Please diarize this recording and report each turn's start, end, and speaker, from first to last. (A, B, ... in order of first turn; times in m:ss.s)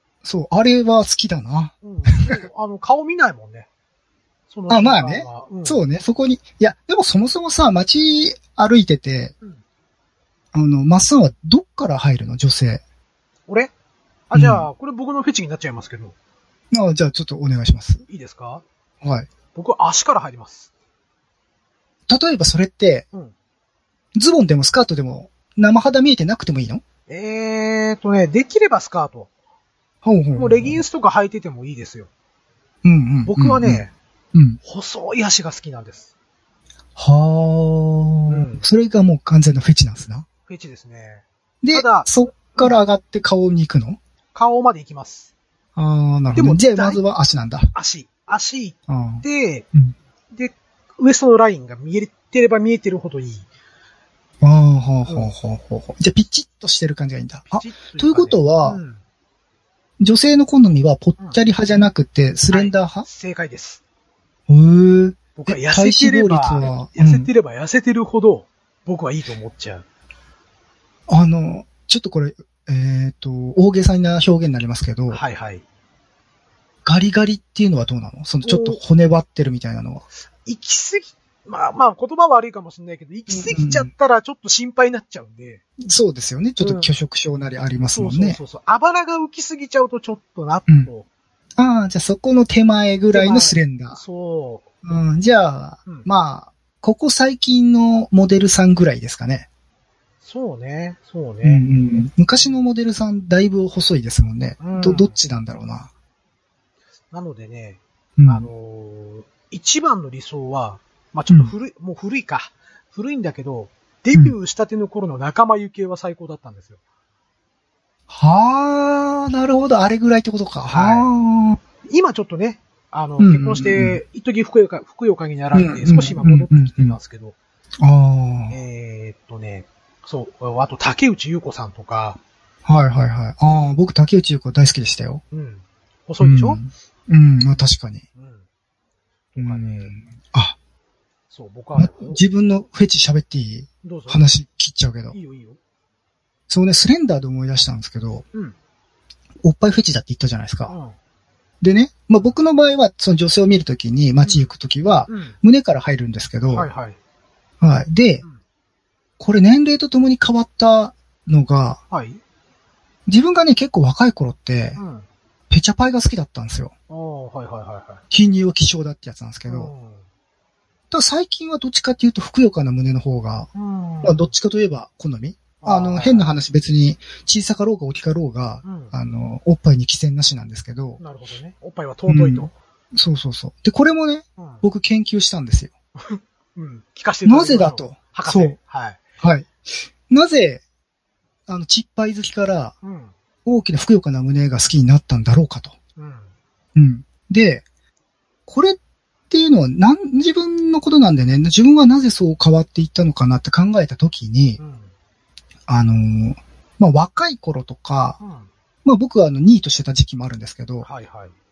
0:00.2-0:02.4 A
0:01.8-0:03.7 B
0:04.5-0:05.8 B
0:04.7-0:09.3 A
0:10.5-0:12.8 A
0:14.3-0:16.1 B
0:14.3-0:14.7 A
0:16.7-0:18.0 A
0:18.1-0:18.6 B
0:19.0-0:19.3 A
0:19.5-0:20.7 B
0:22.1-0:23.0 A
0:24.2-0:26.8 A
0:27.1-0:29.3 B
0:30.0-0:30.8 A
0:30.3-0:32.1 B
0:32.8-0:34.6 A
0:33.2-0:33.9 B
0:34.6-0:36.1 B
0:37.0-0:40.2 A
0:38.3-0:38.6 B
0:40.5-0:42.7 B
0:41.6-0:44.0 A
0:44.3-0:45.3 B
0:45.8-0:47.7 A
0:46.3-0:47.0 B
0:47.7-0:49.6 B
0:48.9-0:49.9 A
0:50.3-0:53.5 B
0:54.4-0:58.8 A
0:55.0-0:55.3 B
0:57.5-0:59.0 B
1:00.0-1:03.0 A
1:02.5-1:03.8 B
1:04.5-1:07.3 A
1:05.4-1:09.8 B
1:11.1-1:15.2 A
1:15.1-1:15.6 B
1:16.8-1:20.0 A
1:18.4-1:18.8 B
1:20.4-1:25.6 B
1:23.3-1:23.9 A
1:25.8-1:28.4 A
1:26.6-1:26.9 B
1:27.8-1:31.0 B
1:31.6-1:34.0 A
1:33.1-1:34.6 B
1:34.8-1:39.5 A
1:40.2-1:41.7 B
1:41.4-1:45.9 A
1:42.3-1:42.6 B
1:44.6-1:45.2 B
1:47.1-1:56.8 B
1:48.2-1:48.5 A
1:58.1-2:01.6 A
2:00.7-2:01.1 B
2:01.8-2:07.3 B
2:03.2-2:04.0 A
2:05.5-2:07.0 A
2:07.8-2:08.6 A
2:08.5-2:12.2 B
2:12.6-2:15.2 A
2:15.3-2:16.6 B
2:16.2-2:18.0 A
2:18.1-2:18.4 B
2:19.3-2:19.9 B
2:19.4-2:20.6 A
2:21.3-2:22.2 B
2:21.8-2:25.2 A
2:23.8-2:24.2 B
2:25.1-2:25.6 B
2:26.5-2:28.2 A
2:29.4-2:30.7 A
2:30.7-2:30.9 B
2:31.6-2:36.7 A
2:34.2-2:34.5 B
2:35.1-2:35.4 B
2:36.5-2:37.0 B
2:37.6-2:38.2 A
2:39.2-2:41.8 A
2:41.9-2:42.2 B
2:43.1-2:44.8 A
2:44.8-2:45.0 B
2:45.5-2:46.7 A
2:46.9-2:48.0 B
2:48.1-2:49.7 A
2:49.4-2:50.0 B
2:50.9-2:53.5 A
2:53.5-2:54.3 B
2:54.0-3:01.0 A
2:55.6-2:56.3 B
2:58.6-2:58.9 B
3:01.0-3:02.5 B
3:02.1-3:05.7 A
3:04.4-3:04.6 B
3:06.0-3:09.0 B
3:07.2-3:08.6 A
3:09.2-3:10.6 A
3:11.5-3:12.7 A
3:12.8-3:13.1 B
3:13.4-3:15.7 A
3:16.0-3:16.3 B
3:16.7-3:17.6 A
3:18.5-3:18.8 A
3:19.3-3:24.6 A
3:24.6-3:24.9 B
3:25.7-3:28.2 A
3:28.2-3:28.5 B
3:28.8-3:30.9 A
3:30.8-3:31.3 B